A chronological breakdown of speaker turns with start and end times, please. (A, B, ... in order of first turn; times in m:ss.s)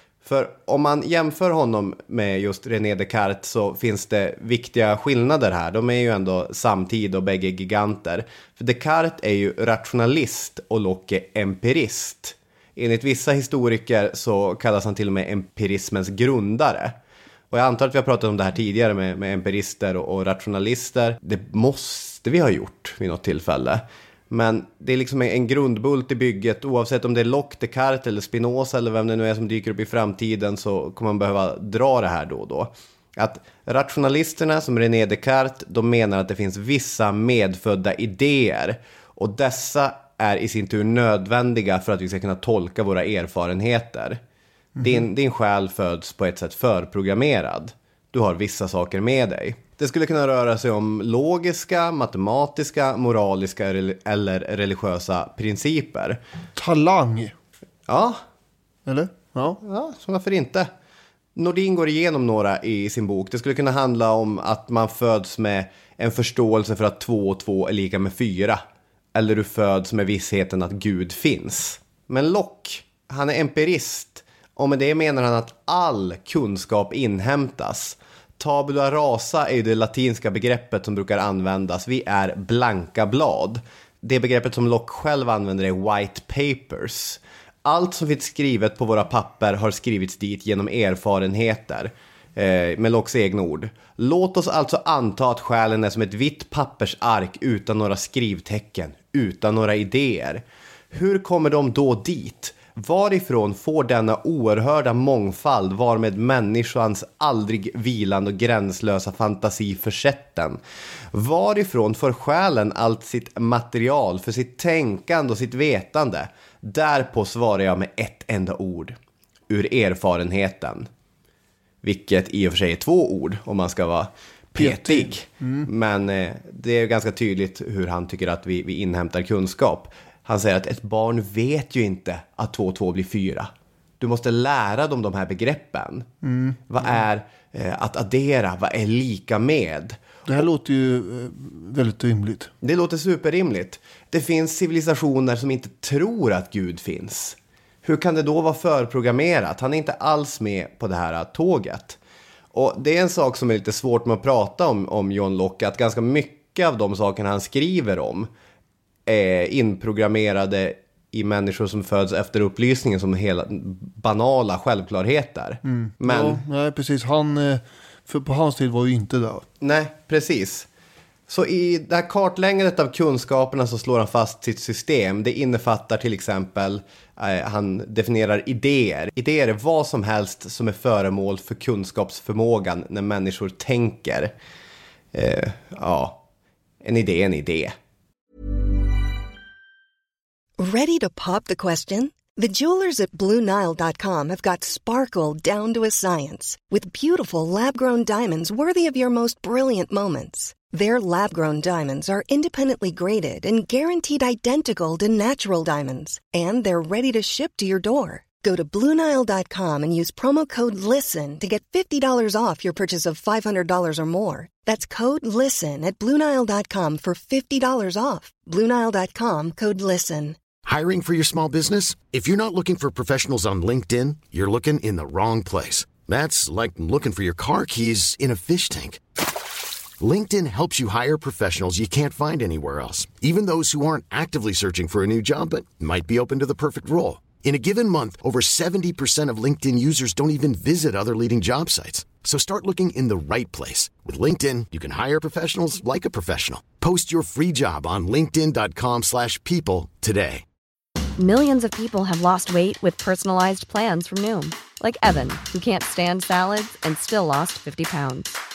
0:00.2-0:16.9 A
0:17.5-0:44.2 A
0:44.8-0:45.1 B
0:44.8-0:56.2 A
0:56.6-0:57.3 B
0:57.9-0:58.2 A
0:58.8-0:59.6 B
0:59.6-1:00.7 A
1:01.4-1:08.6 A
1:09.1-1:50.6 A
1:51.1-1:59.0 A
1:59.5-2:00.9 A
2:01.8-2:16.1 A
2:04.6-2:05.7 B
2:16.2-2:16.8 B
2:16.7-2:20.0 A
2:20.2-2:22.5 B
2:22.6-2:32.0 A
2:32.5-2:38.3 A
2:39.0-2:46.4 A
2:45.6-2:49.4 B
2:49.6-2:50.7 A
2:51.3-3:04.3 A
3:05.1-3:06.2 A
3:06.8-3:07.7 A
3:10.6-3:40.4 C
3:40.6-3:49.0 D
3:50.0-4:10.4 D
4:11.2-4:18.3 E